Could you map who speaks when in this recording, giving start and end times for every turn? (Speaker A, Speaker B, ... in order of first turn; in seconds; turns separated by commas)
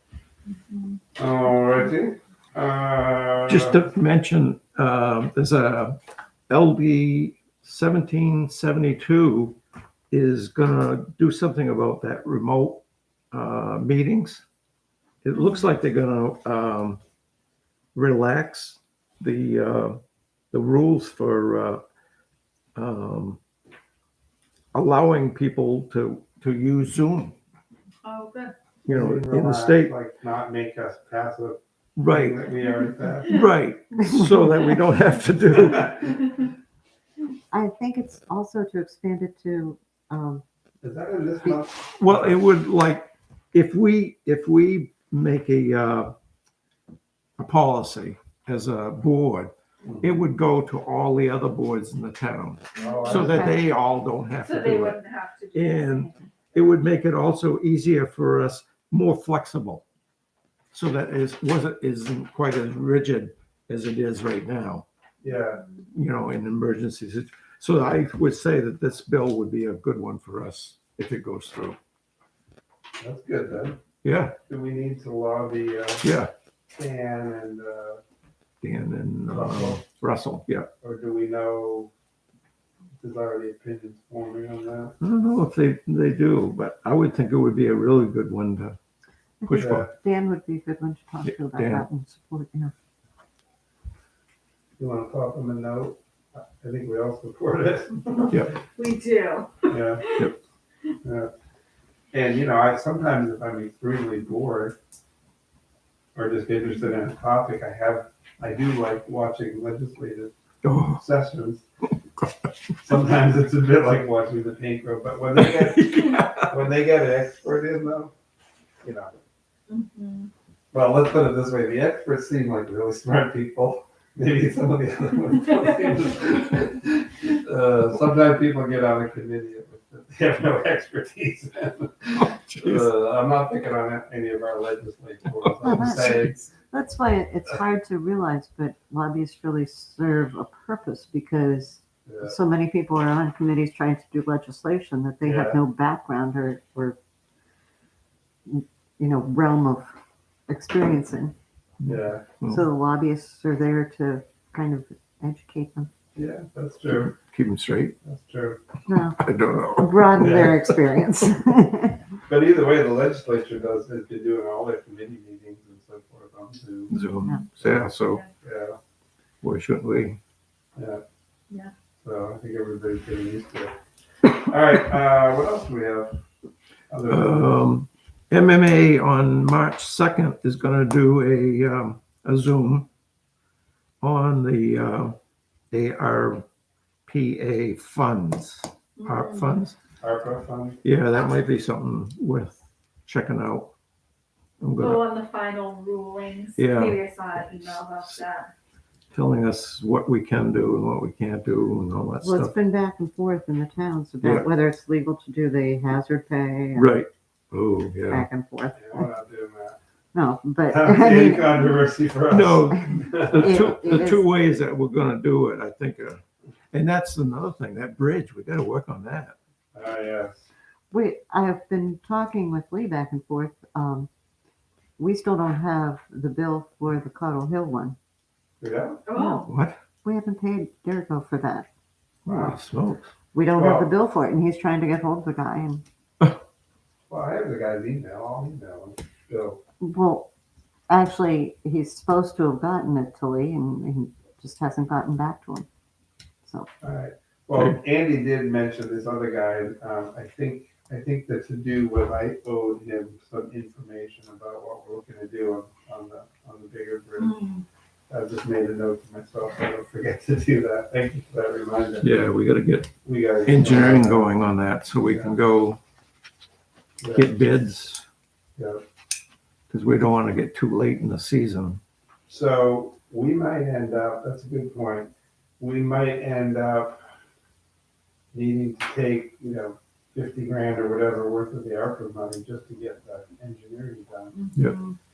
Speaker A: 0.5-1.0, Speaker B: 1.2-3.9, Speaker C: 3.5-6.0, Speaker C: 6.5-9.6, Speaker C: 10.1-14.4, Speaker C: 15.2-17.0, Speaker C: 17.9-20.0, Speaker C: 20.5-21.8, Speaker C: 22.8-23.4, Speaker C: 24.7-27.4, Speaker A: 28.0-28.5, Speaker C: 28.9-29.9, Speaker B: 28.9-33.5, Speaker C: 32.0-32.5, Speaker C: 33.2-36.2, Speaker D: 34.0-34.7, Speaker B: 35.5-36.1, Speaker D: 37.5-40.4, Speaker B: 40.8-42.4, Speaker C: 42.0-46.1, Speaker C: 47.4-55.0, Speaker B: 49.8-50.2, Speaker B: 52.8-53.5, Speaker A: 52.8-53.2, Speaker D: 53.0-53.6, Speaker A: 54.4-56.3, Speaker C: 55.5-59.8, Speaker C: 60.7-64.8, Speaker B: 65.2-65.6, Speaker C: 65.9-71.8, Speaker B: 73.0-73.8, Speaker C: 74.0-74.3, Speaker B: 74.5-76.2, Speaker C: 76.0-76.3, Speaker B: 76.8-78.0, Speaker C: 78.6-80.7, Speaker B: 79.3-79.8, Speaker B: 80.8-81.9, Speaker B: 83.0-85.0, Speaker C: 85.0-88.8, Speaker D: 89.4-92.7, Speaker C: 89.5-89.9, Speaker B: 89.5-89.9, Speaker C: 91.2-91.9, Speaker B: 94.8-98.5, Speaker A: 98.8-100.3, Speaker B: 99.7-100.1, Speaker B: 101.0-101.3, Speaker B: 102.1-104.8, Speaker B: 106.2-110.3, Speaker C: 110.6-111.0, Speaker B: 111.0-111.7, Speaker B: 112.8-118.1, Speaker C: 115.4-116.5, Speaker B: 118.8-119.1, Speaker A: 119.7-120.3, Speaker B: 120.7-136.5, Speaker C: 132.2-132.9, Speaker C: 135.4-136.0, Speaker D: 135.6-147.0, Speaker B: 142.1-142.3, Speaker B: 145.2-145.6, Speaker D: 148.5-149.9, Speaker D: 150.5-151.3, Speaker C: 151.8-152.6, Speaker B: 151.8-152.3, Speaker D: 152.5-155.9, Speaker B: 156.2-157.2, Speaker C: 156.9-158.0, Speaker B: 158.0-158.6, Speaker D: 158.9-159.2, Speaker C: 159.2-160.7, Speaker D: 159.8-162.0, Speaker B: 160.2-160.6, Speaker B: 162.3-167.0, Speaker C: 166.9-168.2, Speaker B: 167.6-167.9, Speaker B: 168.4-168.8, Speaker C: 169.4-170.2, Speaker B: 170.8-171.0, Speaker B: 172.0-173.8, Speaker B: 174.3-176.2, Speaker B: 176.9-177.7, Speaker C: 177.1-182.9, Speaker C: 184.0-185.2, Speaker C: 185.7-186.4, Speaker C: 187.1-189.8, Speaker A: 189.0-189.6, Speaker B: 190.0-190.8, Speaker C: 190.8-193.7, Speaker C: 194.6-195.0, Speaker A: 194.8-198.5, Speaker C: 196.6-198.2, Speaker C: 199.1-202.6, Speaker D: 202.2-206.9, Speaker C: 204.2-204.5, Speaker C: 206.8-208.3, Speaker D: 208.1-209.1, Speaker B: 208.8-209.8, Speaker D: 210.1-211.7, Speaker B: 210.7-213.7, Speaker C: 212.3-216.2, Speaker D: 212.7-214.2, Speaker C: 216.7-219.4, Speaker B: 219.7-220.5, Speaker D: 220.9-224.1, Speaker D: 225.0-228.0, Speaker B: 228.6-229.0, Speaker A: 229.1-229.5, Speaker D: 229.1-229.5, Speaker C: 229.5-229.8, Speaker D: 230.0-231.7, Speaker C: 232.2-233.1, Speaker B: 232.3-232.6, Speaker D: 233.3-235.8, Speaker B: 233.5-233.9, Speaker B: 237.1-239.6, Speaker D: 239.8-240.3, Speaker D: 240.9-245.7, Speaker B: 246.8-257.4, Speaker C: 247.6-247.8, Speaker A: 257.2-257.6, Speaker B: 258.1-262.3, Speaker C: 262.0-262.9, Speaker B: 263.0-265.4, Speaker C: 263.4-265.8, Speaker B: 267.0-267.4, Speaker C: 267.1-268.1, Speaker B: 268.6-268.8, Speaker C: 269.7-271.8, Speaker B: 272.3-277.0, Speaker B: 278.3-284.5, Speaker A: 284.4-285.0